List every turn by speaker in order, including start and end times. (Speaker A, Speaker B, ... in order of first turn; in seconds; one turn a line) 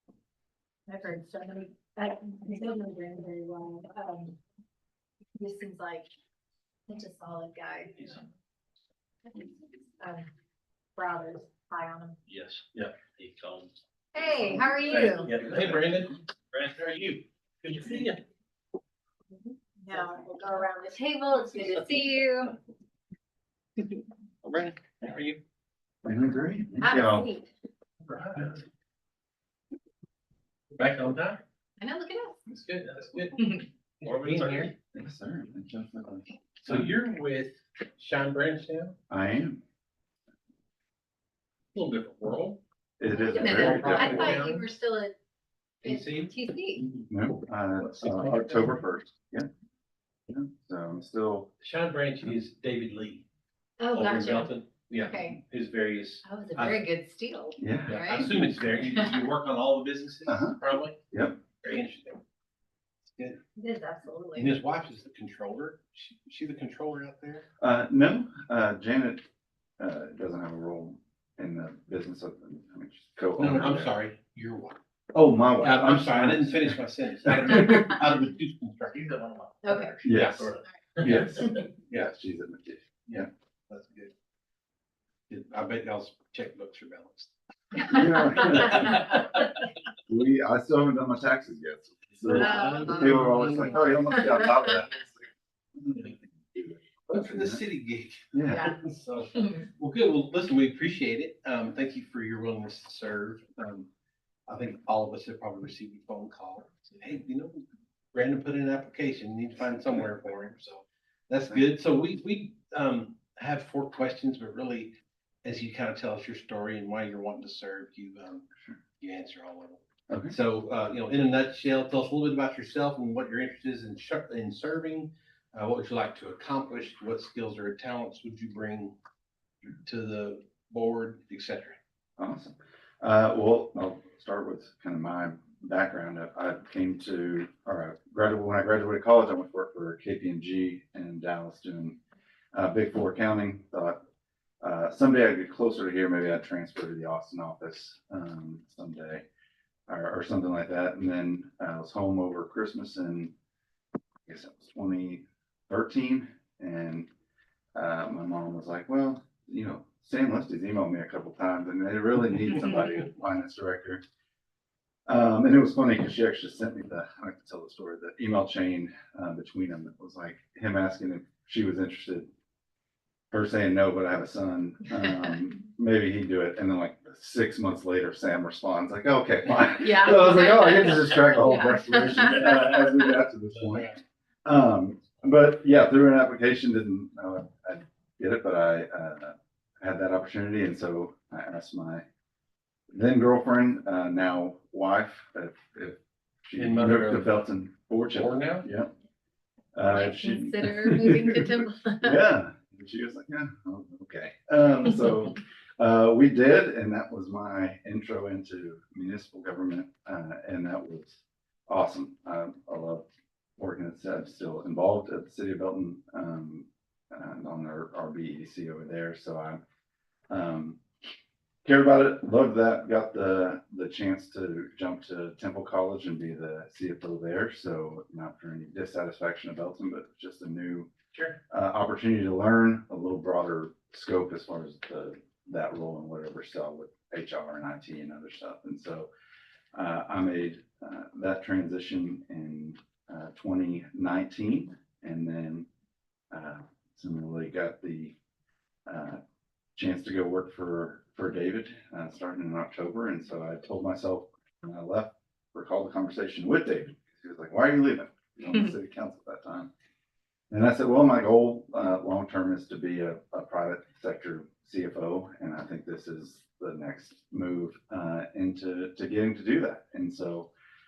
Speaker A: 0.9-4.4
Speaker A: 5.3-6.1
Speaker A: 6.9-8.3
Speaker A: 9.3-10.3
Speaker A: 10.9-12.2
Speaker B: 12.3-16.9
Speaker A: 14.1-15.3
Speaker C: 15.1-16.2
Speaker C: 16.7-18.2
Speaker A: 19.8-22.5
Speaker B: 24.5-25.3
Speaker C: 24.5-25.4
Speaker D: 26.0-27.3
Speaker A: 26.8-27.5
Speaker C: 28.0-28.6
Speaker C: 30.7-31.4
Speaker A: 31.8-32.4
Speaker C: 32.5-33.4
Speaker A: 33.4-33.7
Speaker C: 34.0-34.7
Speaker B: 34.0-34.7
Speaker D: 34.9-36.9
Speaker C: 36.6-38.9
Speaker D: 39.1-39.6
Speaker C: 41.7-42.6
Speaker D: 43.0-44.4
Speaker A: 43.3-45.1
Speaker C: 43.3-44.7
Speaker C: 45.8-46.3
Speaker A: 45.8-46.8
Speaker D: 46.8-49.5
Speaker C: 47.8-48.8
Speaker D: 50.3-51.5
Speaker C: 51.6-53.2
Speaker A: 53.8-55.4
Speaker B: 53.9-54.8
Speaker C: 54.0-56.8
Speaker B: 55.5-56.2
Speaker A: 56.2-59.3
Speaker D: 57.6-58.1
Speaker C: 57.9-61.0
Speaker D: 60.3-60.5
Speaker D: 61.1-61.4
Speaker C: 61.6-62.2
Speaker C: 63.0-63.4
Speaker A: 63.5-64.5
Speaker C: 64.3-67.5
Speaker D: 67.6-69.2
Speaker D: 69.8-73.9
Speaker C: 73.3-74.8
Speaker D: 75.1-77.9
Speaker C: 75.6-82.2
Speaker A: 79.6-79.9
Speaker D: 80.0-83.3
Speaker C: 83.0-84.1
Speaker C: 85.3-89.5
Speaker A: 87.8-89.0
Speaker D: 87.9-89.2
Speaker D: 90.1-95.2
Speaker C: 92.3-93.8
Speaker A: 92.3-94.6
Speaker D: 95.8-97.6
Speaker C: 97.1-103.9
Speaker D: 98.3-98.6
Speaker A: 98.4-98.8
Speaker A: 99.3-99.6
Speaker C: 104.5-118.4
Speaker D: 109.7-110.0
Speaker C: 119.0-128.9
Speaker D: 120.1-120.3
Speaker C: 129.6-131.8
Speaker D: 132.2-141.9
Speaker D: 142.5-144.0
Speaker D: 144.6-149.2
Speaker D: 149.9-153.3
Speaker D: 154.3-157.1
Speaker D: 157.7-164.0
Speaker D: 165.1-172.3
Speaker D: 173.3-192.0
Speaker A: 179.7-182.9
Speaker C: 183.6-183.9
Speaker D: 192.9-198.9
Speaker C: 196.6-197.4
Speaker C: 198.1-198.7
Speaker D: 199.7-213.1
Speaker A: 199.9-202.2
Speaker D: 213.6-219.6
Speaker D: 220.3-220.8
Speaker D: 221.6-230.9
Speaker D: 231.5-239.1
Speaker D: 239.7-245.7
Speaker D: 246.3-248.1
Speaker D: 248.9-249.2
Speaker D: 249.8-259.7
Speaker D: 260.5-270.5